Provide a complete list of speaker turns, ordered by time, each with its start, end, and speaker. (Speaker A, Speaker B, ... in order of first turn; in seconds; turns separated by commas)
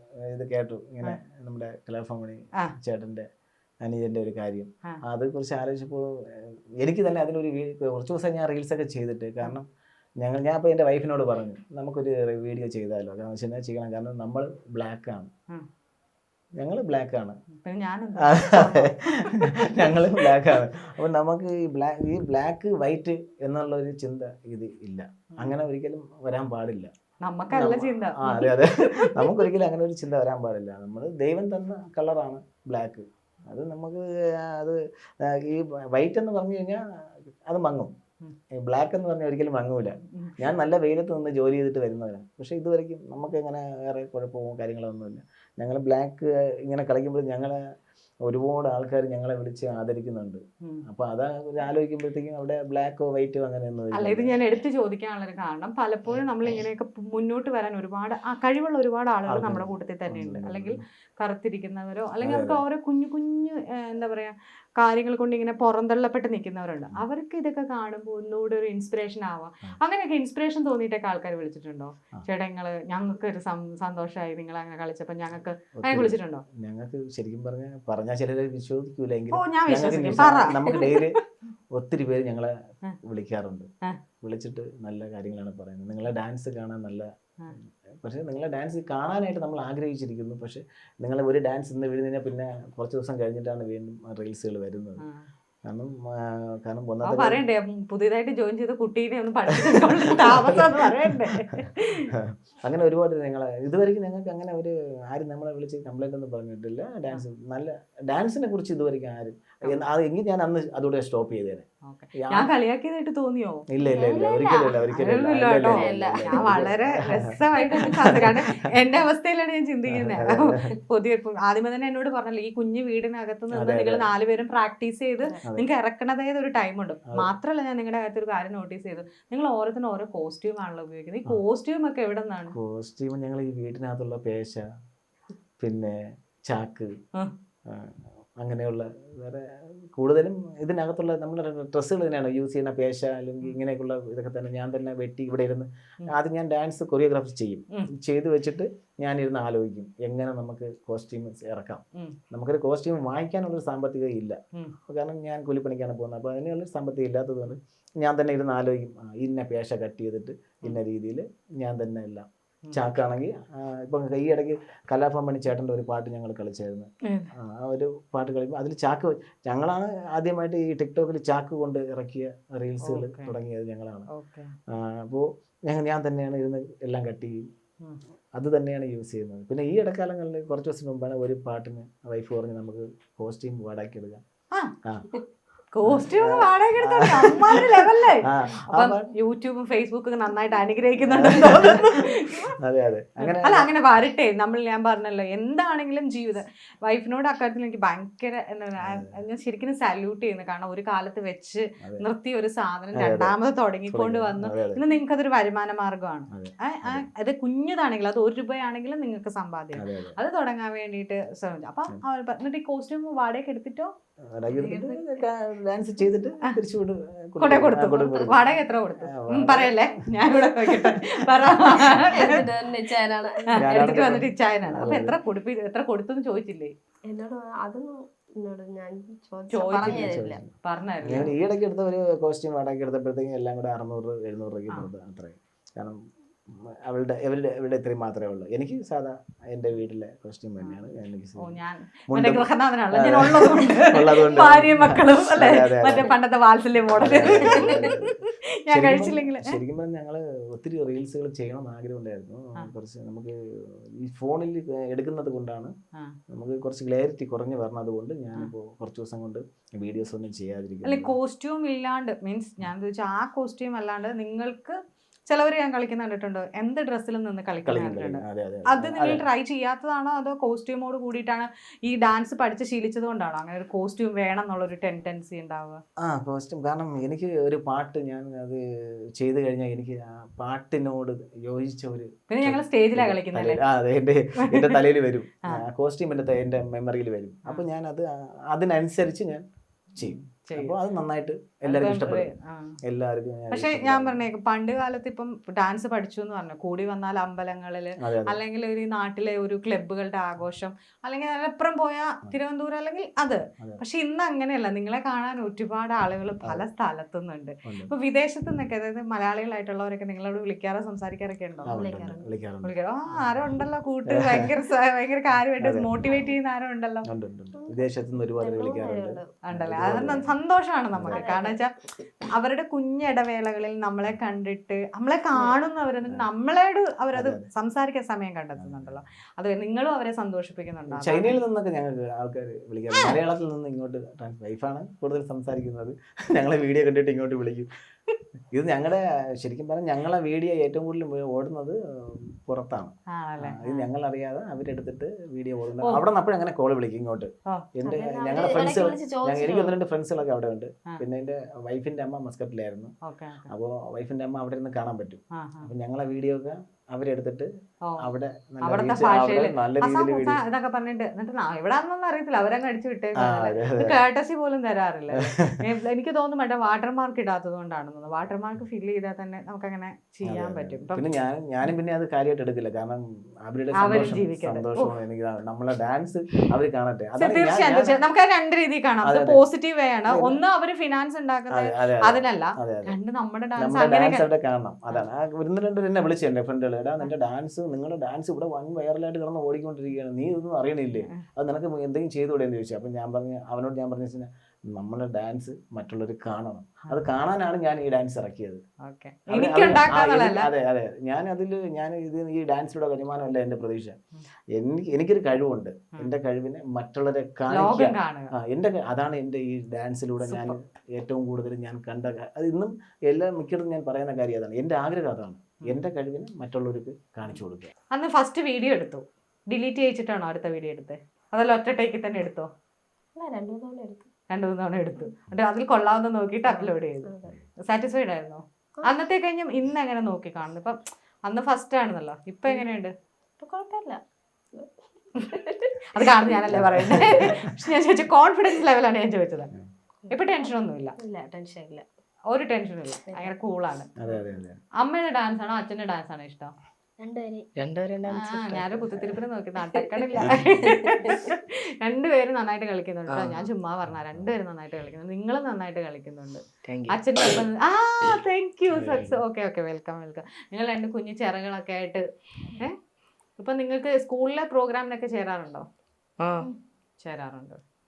Speaker A: 0.3-3.3, Speaker A: 3.8-9.7, Speaker A: 10.2-15.3, Speaker A: 16.6-17.4, Speaker B: 17.6-20.3, Speaker A: 18.3-26.9, Speaker B: 27.2-29.4, Speaker A: 27.5-36.8, Speaker A: 37.5-37.9, Speaker A: 38.5-47.6, Speaker B: 40.0-40.5, Speaker A: 48.3-54.4, Speaker B: 54.0-76.5, Speaker A: 59.3-60.8, Speaker A: 62.2-62.6, Speaker A: 75.8-81.2, Speaker B: 79.3-81.2, Speaker A: 81.7-83.7, Speaker A: 84.2-87.1, Speaker A: 87.6-95.0, Speaker B: 95.0-95.3, Speaker A: 95.7-97.4, Speaker B: 97.1-102.1, Speaker A: 99.7-111.7, Speaker B: 111.9-113.7, Speaker A: 112.2-112.5, Speaker A: 113.7-118.4, Speaker C: 113.8-114.9, Speaker B: 114.9-132.6, Speaker C: 115.6-116.5, Speaker C: 117.6-117.8, Speaker A: 119.9-120.6, Speaker A: 123.5-124.1, Speaker A: 132.5-134.7, Speaker A: 135.6-136.0, Speaker A: 136.5-136.9, Speaker A: 137.7-174.1, Speaker B: 162.7-163.0, Speaker D: 167.1-167.3, Speaker B: 172.8-173.3, Speaker B: 174.1-174.6, Speaker A: 174.7-177.4, Speaker A: 178.4-184.2, Speaker A: 184.8-185.1, Speaker B: 185.7-192.6, Speaker A: 185.9-187.7, Speaker A: 188.2-189.1, Speaker A: 191.0-193.7, Speaker B: 193.2-213.9, Speaker A: 198.8-199.1, Speaker A: 201.8-202.1, Speaker A: 203.0-203.3, Speaker A: 203.9-204.8, Speaker A: 206.3-207.1, Speaker A: 209.7-210.2, Speaker A: 214.3-222.1, Speaker B: 214.6-215.1, Speaker B: 217.4-222.4, Speaker C: 222.2-223.5, Speaker B: 223.6-226.7, Speaker A: 223.6-225.1, Speaker C: 227.1-230.4, Speaker B: 229.5-231.3, Speaker A: 229.8-236.0, Speaker A: 236.8-241.6, Speaker B: 241.4-249.5, Speaker A: 242.1-246.1, Speaker A: 247.0-248.1, Speaker C: 247.5-247.9, Speaker A: 248.7-255.7, Speaker A: 256.3-261.1, Speaker B: 260.9-264.8, Speaker B: 265.3-275.8, Speaker A: 267.6-269.2, Speaker A: 276.0-278.6, Speaker A: 279.2-289.4, Speaker B: 282.3-283.6, Speaker B: 284.4-284.8, Speaker B: 290.0-290.8, Speaker A: 290.0-292.3, Speaker B: 291.7-292.8, Speaker A: 292.9-294.2, Speaker B: 293.5-311.8, Speaker A: 298.0-298.4, Speaker C: 311.7-312.3, Speaker A: 311.7-313.3, Speaker B: 312.6-317.1, Speaker A: 314.1-314.5, Speaker A: 315.6-316.2, Speaker A: 317.1-320.3, Speaker C: 317.6-319.3, Speaker B: 319.4-321.7, Speaker A: 320.9-321.3, Speaker C: 321.1-321.6, Speaker B: 322.3-331.4, Speaker A: 327.1-327.5, Speaker A: 328.6-329.0, Speaker A: 330.9-337.7, Speaker A: 338.5-352.9, Speaker B: 343.1-343.9, Speaker C: 347.9-349.7, Speaker B: 353.0-353.5, Speaker A: 353.5-357.5, Speaker B: 355.4-355.7, Speaker A: 358.0-360.4, Speaker B: 358.6-371.0, Speaker A: 363.2-364.0, Speaker A: 365.1-365.6, Speaker A: 370.2-377.9, Speaker B: 373.8-374.9, Speaker B: 377.2-384.3, Speaker A: 379.0-379.4, Speaker A: 380.1-380.4, Speaker A: 381.5-382.9, Speaker A: 383.6-398.6, Speaker B: 398.8-400.5, Speaker A: 399.3-403.9, Speaker A: 404.6-417.7, Speaker B: 407.5-408.3, Speaker B: 410.2-410.6, Speaker B: 417.9-422.5, Speaker C: 423.1-424.1, Speaker B: 424.3-432.9, Speaker C: 426.5-427.3, Speaker C: 433.4-434.0, Speaker C: 434.5-437.4, Speaker B: 435.9-439.5, Speaker A: 436.5-437.5, Speaker C: 440.1-441.8, Speaker B: 440.1-441.0, Speaker B: 442.3-443.9, Speaker C: 443.1-443.3, Speaker A: 444.0-444.6, Speaker B: 444.8-446.5, Speaker C: 447.0-447.5, Speaker D: 447.6-448.7, Speaker B: 448.1-462.0, Speaker A: 450.2-450.7, Speaker C: 450.7-451.3, Speaker D: 453.1-453.4, Speaker D: 456.6-457.4, Speaker A: 458.7-459.2, Speaker B: 463.4-465.6, Speaker D: 466.2-466.5, Speaker B: 467.0-467.6